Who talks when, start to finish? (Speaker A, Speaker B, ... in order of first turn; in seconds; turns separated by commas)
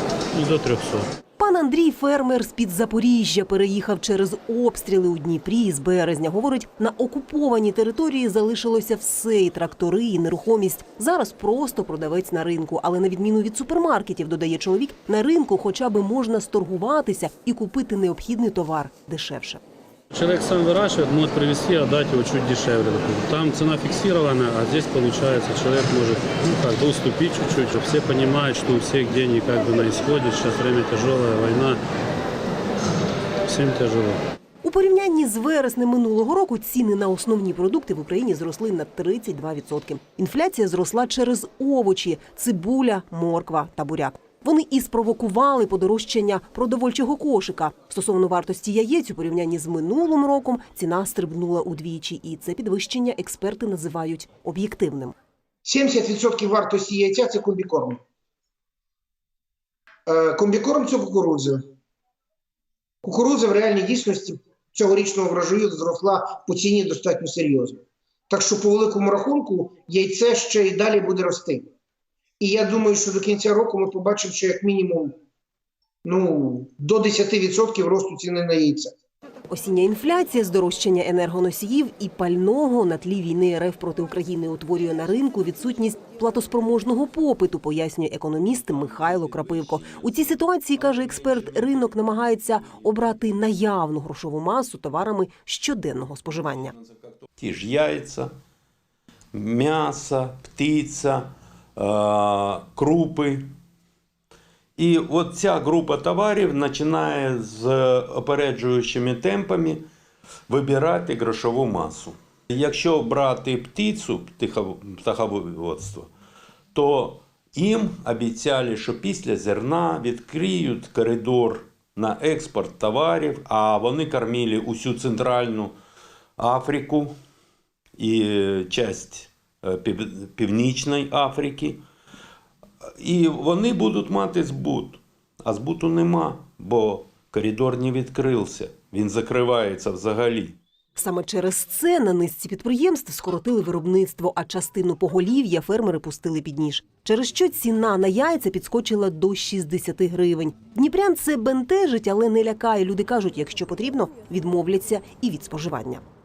Speaker A: 0.3-1.1, Speaker B: 1.4-19.6, Speaker A: 20.1-31.8, Speaker A: 33.5-34.2, Speaker B: 34.6-55.1, Speaker C: 55.6-58.0, Speaker C: 60.1-61.6, Speaker C: 63.0-71.7, Speaker C: 72.4-75.2, Speaker C: 76.0-78.9, Speaker B: 79.5-96.7, Speaker D: 97.4-98.3, Speaker D: 99.3-103.5, Speaker D: 104.8-109.8, Speaker D: 110.5-116.1, Speaker D: 116.7-125.8, Speaker D: 126.4-127.2, Speaker D: 128.0-131.8, Speaker D: 133.0-140.6, Speaker B: 141.0-156.0